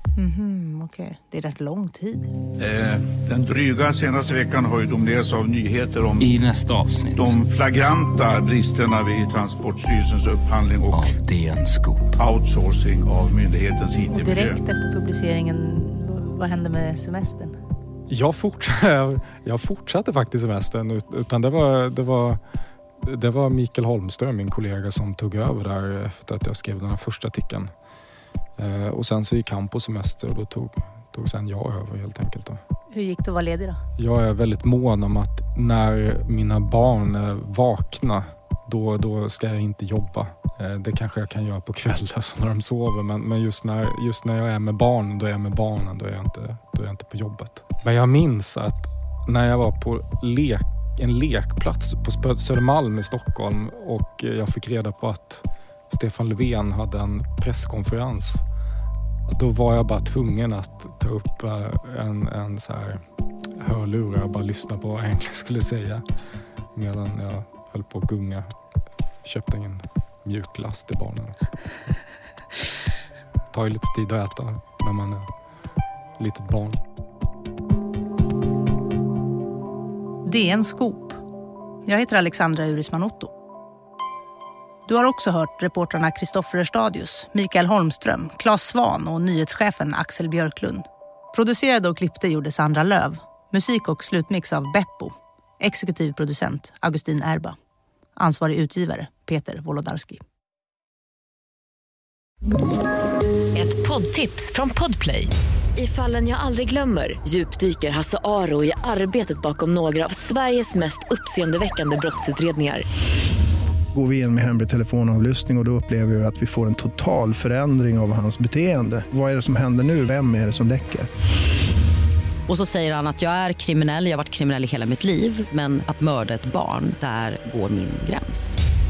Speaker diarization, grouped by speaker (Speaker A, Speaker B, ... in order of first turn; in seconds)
Speaker A: 0.2-2.3, 14.1-17.6, 32.9-33.8, 80.2-81.2, 81.9-83.3, 84.9-97.6, 98.2-100.2
Speaker B: 2.6-6.4, 7.1-11.2, 12.2-14.6
Speaker C: 6.2-7.4, 10.9-12.1
Speaker D: 18.1-22.4, 23.0-27.7, 28.6-32.6, 34.0-58.4, 59.3-63.0, 63.6-66.0, 66.7-68.5, 69.2-71.5, 73.5-75.3, 76.2-76.8
Speaker E: 103.5-112.8
Speaker F: 113.9-121.1
Speaker G: 122.5-128.6